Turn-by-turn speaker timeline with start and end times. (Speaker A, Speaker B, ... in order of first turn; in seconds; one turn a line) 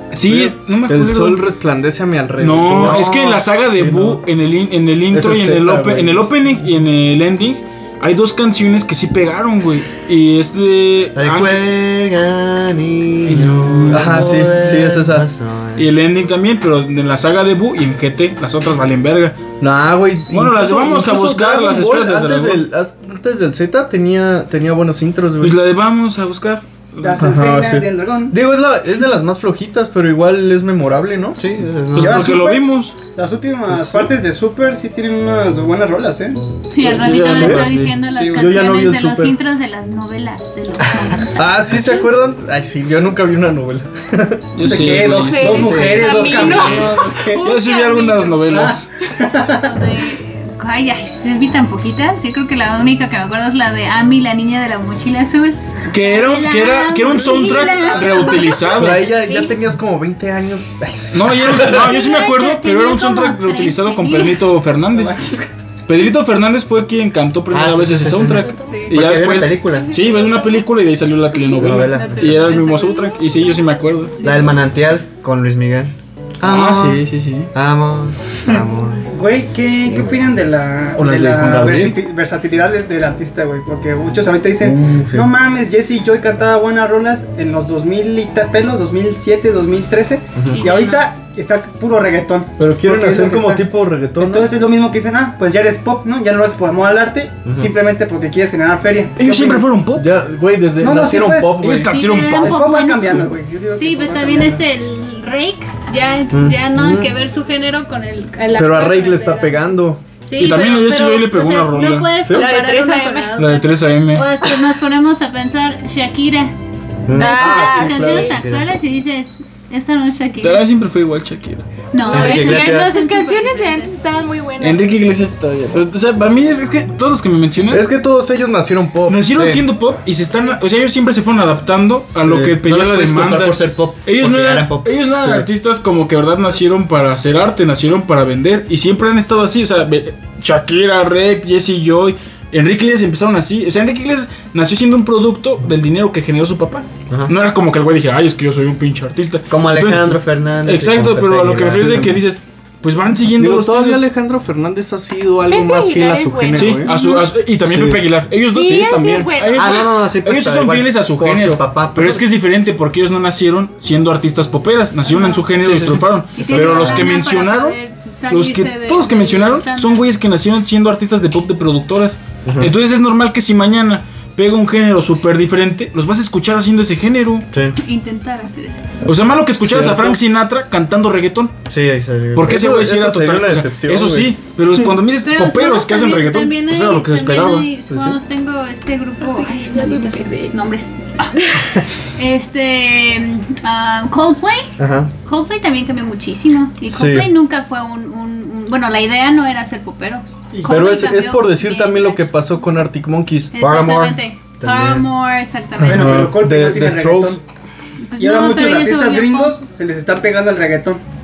Speaker A: 0.1-1.4
Speaker B: 0.2-4.2
Speaker A: 2.4-11.6
Speaker B: 5.1-6.3
Speaker C: 11.2-15.9
Speaker A: 13.3-14.2
Speaker B: 13.9-15.3
Speaker A: 15.8-19.4
Speaker B: 19.6-25.6
Speaker A: 20.3-22.7
Speaker A: 25.4-27.3
Speaker D: 27.0-28.4
Speaker B: 27.2-31.4
Speaker C: 31.4-32.4
Speaker A: 31.9-33.0
Speaker D: 32.0-36.4
Speaker B: 33.7-34.1
Speaker E: 36.7-41.6
Speaker A: 36.8-38.0
Speaker B: 37.3-37.7
Speaker D: 38.1-38.7
Speaker B: 38.3-39.4
Speaker B: 41.4-45.1
Speaker A: 44.6-48.9
Speaker D: 44.6-47.5
Speaker F: 45.1-48.4
Speaker B: 45.7-46.0
Speaker C: 45.7-46.0
Speaker D: 48.5-49.7
Speaker E: 49.5-59.4
Speaker A: 55.9-59.1
Speaker D: 57.8-58.2
Speaker B: 58.6-62.1
Speaker F: 59.3-59.5
Speaker A: 61.1-65.2
Speaker E: 61.7-64.5
Speaker D: 64.9-65.5
Speaker A: 65.9-74.2
Speaker C: 67.5-70.0
Speaker F: 68.4-68.9
Speaker F: 69.7-70.7
Speaker C: 71.6-72.4
Speaker E: 71.8-73.2
Speaker F: 72.0-73.1
Speaker C: 74.2-79.1
Speaker A: 76.4-77.5
Speaker D: 79.1-99.7
Speaker C: 79.9-80.2
Speaker A: 81.0-82.0
Speaker C: 84.7-85.3
Speaker C: 90.4-90.6
Speaker E: 90.5-91.0
Speaker B: 92.6-94.5
Speaker C: 97.5-97.8
Speaker A: 99.2-100.1
Speaker B: 99.9-102.0
Speaker D: 100.8-101.7
Speaker A: 101.6-102.6
Speaker E: 101.9-109.7
Speaker D: 102.3-104.6
Speaker C: 106.3-106.6
Speaker B: 106.7-107.1
Speaker B: 108.5-110.0
Speaker E: 110.2-116.5
Speaker A: 110.4-112.1
Speaker B: 112.2-112.5
Speaker F: 112.3-113.4
Speaker A: 113.4-114.3
Speaker C: 117.1-118.7
Speaker E: 117.1-120.7
Speaker F: 117.1-118.4
Speaker B: 117.3-118.3
Speaker A: 120.4-121.7
Speaker E: 121.9-124.0
Speaker F: 122.0-125.0
Speaker C: 122.1-122.9
Speaker A: 124.6-127.9
Speaker B: 127.7-129.7
Speaker A: 129.1-154.1
Speaker B: 132.2-132.6
Speaker C: 132.2-135.3
Speaker C: 147.1-147.3
Speaker C: 149.5-152.2
Speaker B: 153.4-156.9
Speaker F: 155.5-157.3
Speaker A: 156.5-167.8
Speaker B: 157.6-158.1
Speaker F: 158.5-159.9
Speaker C: 159.6-162.2
Speaker E: 165.1-165.4
Speaker B: 165.6-166.0
Speaker C: 165.7-167.1
Speaker E: 166.3-170.1
Speaker A: 168.3-177.5
Speaker C: 172.4-172.7
Speaker C: 177.5-177.8
Speaker E: 177.8-178.9
Speaker A: 179.1-181.5
Speaker B: 179.6-180.2
Speaker C: 181.7-182.6
Speaker A: 182.3-187.7
Speaker B: 182.4-184.4
Speaker E: 185.2-191.3
Speaker B: 187.9-188.2
Speaker F: 189.2-190.6
Speaker F: 191.3-191.6
Speaker E: 192.2-194.7
Speaker C: 194.8-195.1
Speaker E: 195.2-202.2
Speaker B: 196.9-197.3
Speaker D: 200.5-201.0
Speaker B: 200.7-203.5
Speaker E: 203.5-206.3
Speaker C: 203.6-205.1
Speaker B: 205.8-207.4
Speaker D: 205.9-207.4
Speaker E: 208.1-209.6
Speaker D: 208.2-211.0